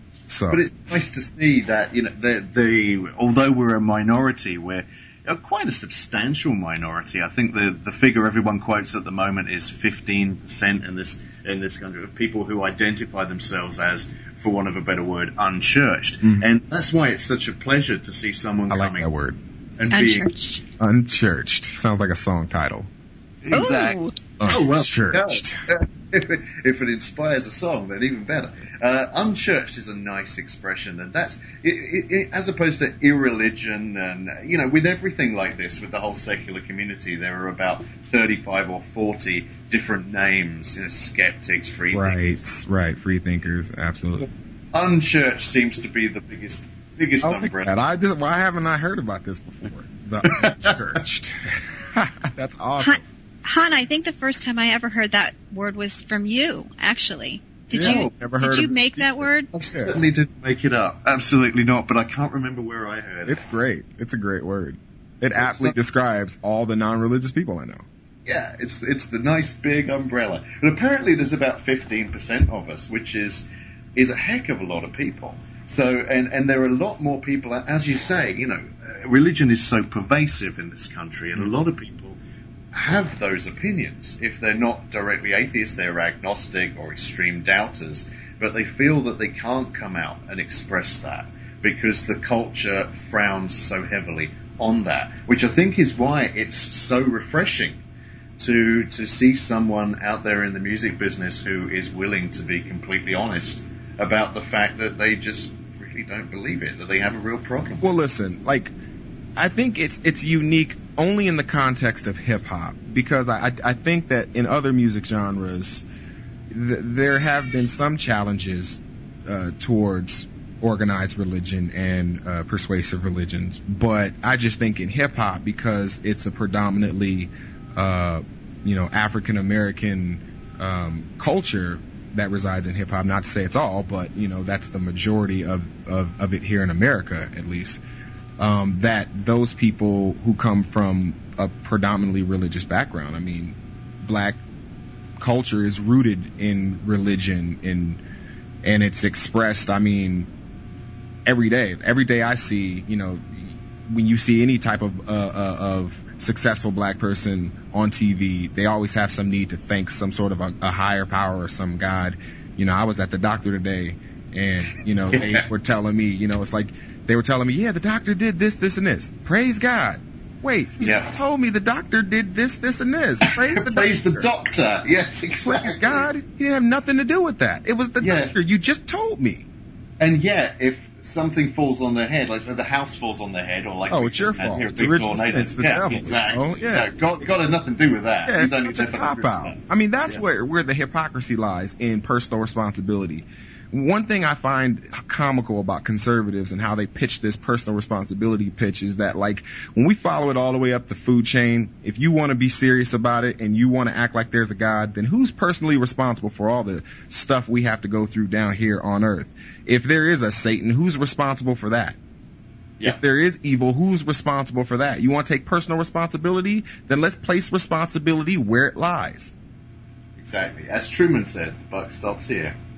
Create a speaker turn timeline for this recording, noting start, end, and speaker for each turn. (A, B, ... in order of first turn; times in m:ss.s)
0:00.3-0:00.6 A
0:00.5-0:19.1 B
0:18.7-0:19.4 A
0:19.8-0:20.3 B
0:19.9-0:20.6 C
0:20.8-0:22.9 A
0:23.4-0:42.4 B
0:23.5-0:24.2 C
0:24.4-0:25.6 A
0:41.9-0:44.3 A
0:44.7-0:47.8 B
0:47.2-0:53.0 A
0:50.2-0:50.9 B
0:52.8-0:59.5 C
0:57.7-0:58.1 B
0:57.7-0:59.9 A
0:59.5-1:03.4 B
1:03.3-1:07.8 A
1:05.4-1:05.8 B
1:08.3-1:22.2 B
1:22.7-1:37.8 B
1:38.4-1:48.0 B
1:47.8-1:48.7 A
1:49.4-1:55.8 A
1:56.5-2:17.8 A
2:18.4-2:24.4 A
2:25.2-2:28.0 A
2:28.6-2:30.3 A
2:31.3-2:54.3 A
2:45.1-2:45.4 B
2:50.8-2:51.1 B
2:53.2-2:56.1 B
2:55.4-2:59.5 A
2:58.0-2:58.4 B
3:00.0-3:10.2 B
3:03.9-3:07.1 A
3:08.2-3:32.0 A
3:32.8-3:39.4 A
3:40.2-3:42.6 B